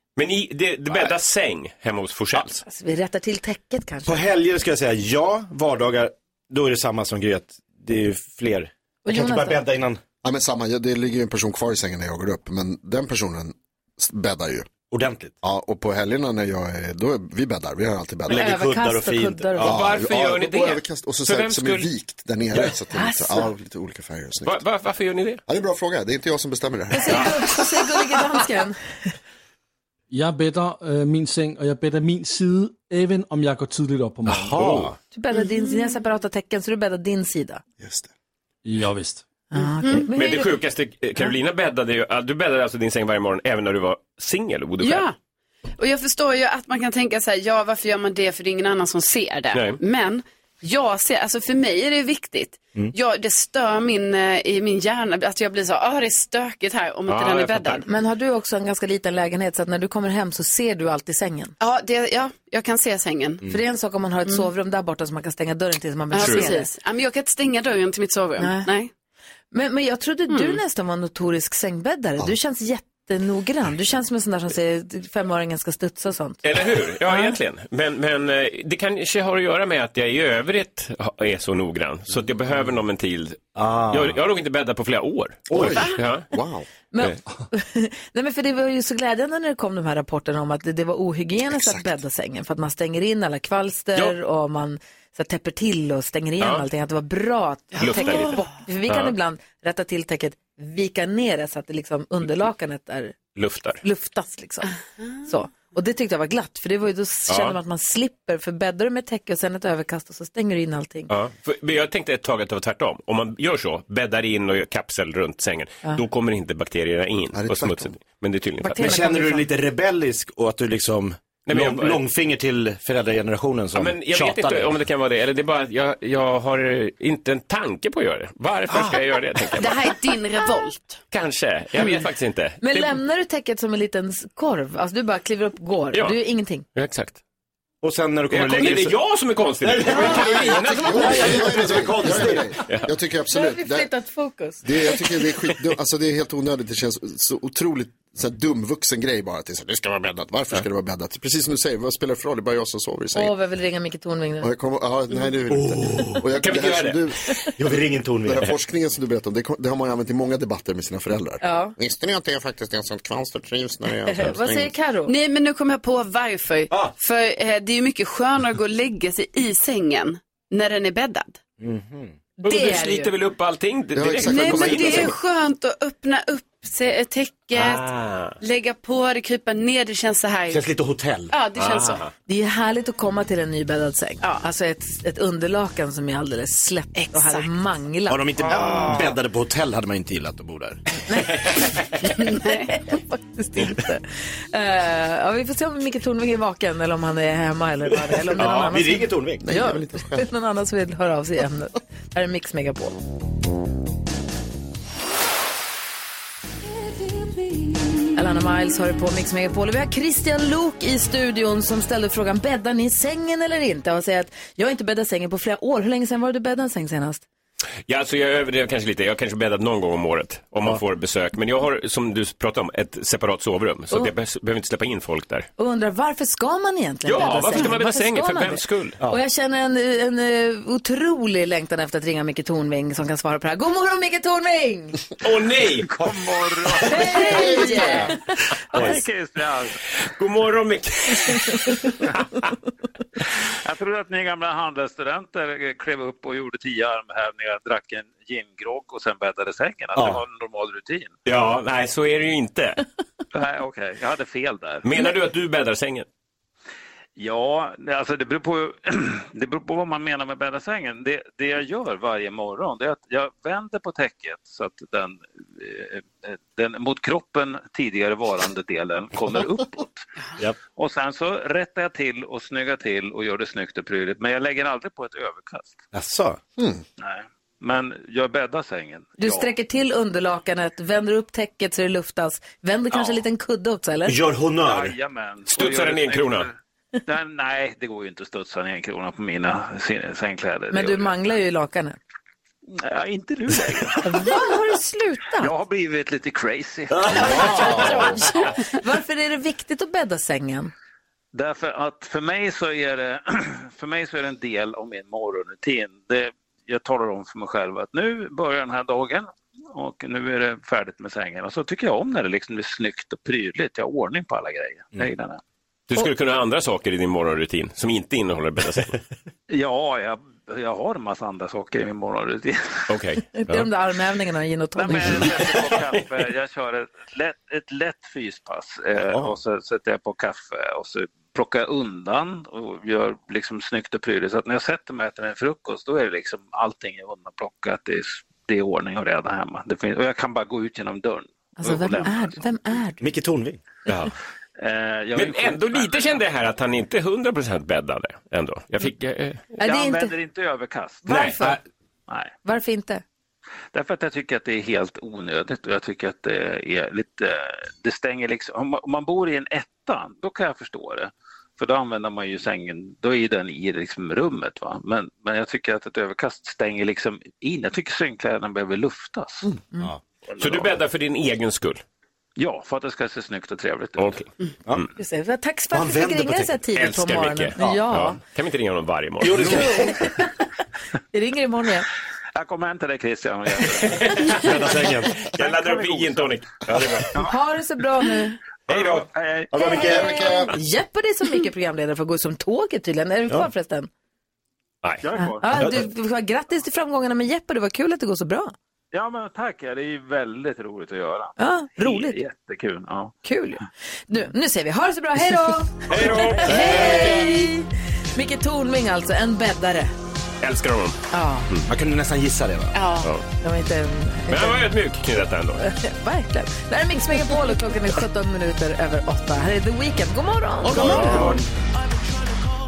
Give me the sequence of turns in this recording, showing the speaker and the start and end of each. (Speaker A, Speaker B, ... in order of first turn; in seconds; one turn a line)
Speaker A: 0.1-2.6
Speaker B: 2.6-4.2
Speaker C: 4.0-10.0
Speaker B: 9.0-9.6
Speaker D: 10.2-14.7
Speaker C: 14.9-15.3
Speaker D: 15.4-18.5
Speaker C: 18.3-19.9
Speaker B: 18.3-19.8
Speaker D: 19.6-24.6
Speaker A: 19.6-21.9
Speaker B: 22.9-23.5
Speaker A: 24.4-25.4
Speaker D: 25.5-27.4
Speaker B: 26.9-28.8
Speaker E: 30.1-34.9
Speaker C: 34.3-35.0
Speaker B: 35.1-37.6
Speaker D: 37.8-38.1
Speaker E: 38.6-39.2
Speaker B: 39.5-40.5
Speaker A: 40.1-45.1
Speaker F: 44.8-45.1
Speaker F: 45.8-57.9
Speaker A: 49.5-49.8
Speaker A: 57.1-57.8
Speaker B: 57.8-61.5
Speaker F: 61.6-63.4
Speaker B: 63.5-66.7
Speaker F: 66.1-68.9
Speaker A: 66.2-66.5
Speaker B: 68.4-68.7
Speaker B: 69.5-76.4
Speaker F: 70.3-70.6
Speaker A: 76.4-86.3
Speaker B: 77.0-77.4
Speaker C: 83.5-84.2
Speaker C: 85.5-85.9
Speaker D: 86.3-86.7
Speaker B: 86.9-103.2
Speaker D: 91.4-91.9
Speaker A: 96.4-96.7
Speaker F: 97.8-98.5
Speaker A: 97.8-98.3
Speaker A: 98.9-99.2
Speaker A: 103.3-103.8
Speaker B: 103.8-104.7
Speaker B: 105.2-111.1
Speaker A: 107.3-107.6
Speaker A: 111.1-119.0
Speaker D: 117.3-118.0
Speaker B: 118.6-119.5
Speaker C: 118.8-124.8
Speaker A: 121.5-122.0
Speaker A: 123.7-129.9
Speaker F: 129.6-131.0
Speaker A: 131.1-132.9
Speaker B: 132.6-136.7
Speaker A: 135.9-136.2
Speaker A: 136.7-137.2
Speaker C: 137.8-139.0
Speaker A: 138.3-141.7
Speaker C: 139.6-142.5
Speaker D: 139.9-143.9
Speaker B: 141.0-141.5
Speaker B: 143.3-145.1
Speaker D: 144.6-153.3
Speaker B: 153.1-154.5
Speaker D: 154.4-157.3
Speaker C: 155.5-156.3
Speaker A: 156.4-157.0
Speaker B: 157.2-157.5
Speaker C: 157.6-158.5
Speaker D: 158.2-164.7
Speaker B: 161.4-161.7
Speaker B: 164.0-165.1
Speaker F: 165.1-171.4
Speaker C: 171.6-172.2
Speaker B: 172.4-173.1
Speaker A: 172.4-175.2
Speaker D: 173.9-175.2
Speaker F: 174.2-177.9
Speaker A: 177.5-178.3
Speaker F: 178.4-180.6
Speaker C: 180.5-181.3
Speaker F: 181.3-182.1
Speaker A: 181.5-182.1
Speaker B: 182.3-188.4
Speaker F: 186.9-187.5
Speaker C: 188.1-190.8
Speaker B: 191.1-203.0
Speaker A: 191.3-191.6
Speaker F: 192.2-192.8
Speaker C: 198.3-199.5
Speaker D: 199.4-200.3
Speaker B: 208.1-217.2
Speaker A: 217.9-225.5
Speaker B: 225.6-235.0
Speaker A: 227.0-229.0
Speaker A: 235.2-236.1
Speaker G: 235.9-238.1
Speaker B: 236.8-239.0
Speaker D: 237.3-238.1
Speaker G: 238.7-239.8
Speaker C: 238.7-239.0
Speaker A: 240.1-242.5
Speaker G: 243.6-251.2
Speaker C: 249.9-250.2
Speaker A: 251.2-252.8
Speaker G: 253.3-254.9
Speaker A: 254.8-256.1
Speaker G: 257.1-270.0
Speaker G: 270.7-275.8
Speaker C: 275.9-276.4
Speaker D: 276.6-276.8
Speaker G: 277.0-279.5
Speaker B: 279.2-284.1
Speaker G: 282.9-283.2
Speaker C: 284.1-284.9
Speaker G: 284.6-286.6
Speaker A: 285.5-286.5
Speaker G: 287.1-291.4
Speaker B: 290.7-292.0
Speaker G: 292.7-294.3
Speaker B: 294.0-295.5
Speaker G: 295.4-298.5
Speaker C: 296.9-298.1
Speaker D: 297.3-298.1
Speaker B: 298.7-300.7
Speaker G: 301.3-315.4
Speaker A: 315.9-319.0
Speaker G: 319.5-322.9
Speaker A: 322.9-323.7
Speaker B: 323.3-325.3
Speaker G: 324.8-342.4
Speaker C: 329.0-329.4
Speaker B: 341.6-343.0
Speaker C: 343.0-343.6
Speaker A: 343.9-344.1
Speaker G: 344.6-346.2
Speaker A: 345.1-349.5
Speaker G: 349.5-351.3
Speaker B: 349.6-350.1
Speaker B: 351.0-351.6
Speaker A: 351.1-351.5
Speaker G: 352.1-352.3
Speaker B: 352.4-353.0
Speaker G: 353.7-369.5
Speaker G: 370.4-370.8
Speaker A: 370.4-371.8
Speaker G: 372.4-374.1
Speaker A: 374.0-374.9
Speaker B: 374.9-378.2
Speaker C: 375.7-376.6
Speaker A: 376.7-379.9
Speaker C: 377.6-377.9
Speaker C: 379.2-380.0
Speaker B: 379.4-380.3
Speaker B: 381.1-381.9
Speaker G: 382.4-384.3
Speaker A: 383.8-387.2
Speaker C: 384.4-385.2
Speaker G: 385.3-386.3
Speaker C: 386.7-387.0
Speaker B: 387.2-388.4
Speaker G: 388.7-390.4
Speaker D: 389.5-390.5
Speaker B: 389.6-393.9
Speaker A: 394.8-395.1
Speaker G: 395.0-395.5
Speaker B: 395.1-398.5
Speaker C: 395.5-395.8
Speaker G: 398.9-403.6
Speaker B: 401.4-402.2
Speaker B: 403.2-409.9
Speaker C: 405.9-407.4
Speaker A: 406.0-407.1
Speaker A: 410.4-411.6
Speaker B: 411.1-411.5
Speaker C: 411.7-412.8
Speaker F: 412.7-413.1
Speaker B: 413.4-414.7
Speaker A: 414.3-415.6
Speaker B: 415.6-421.4
Speaker C: 420.6-421.4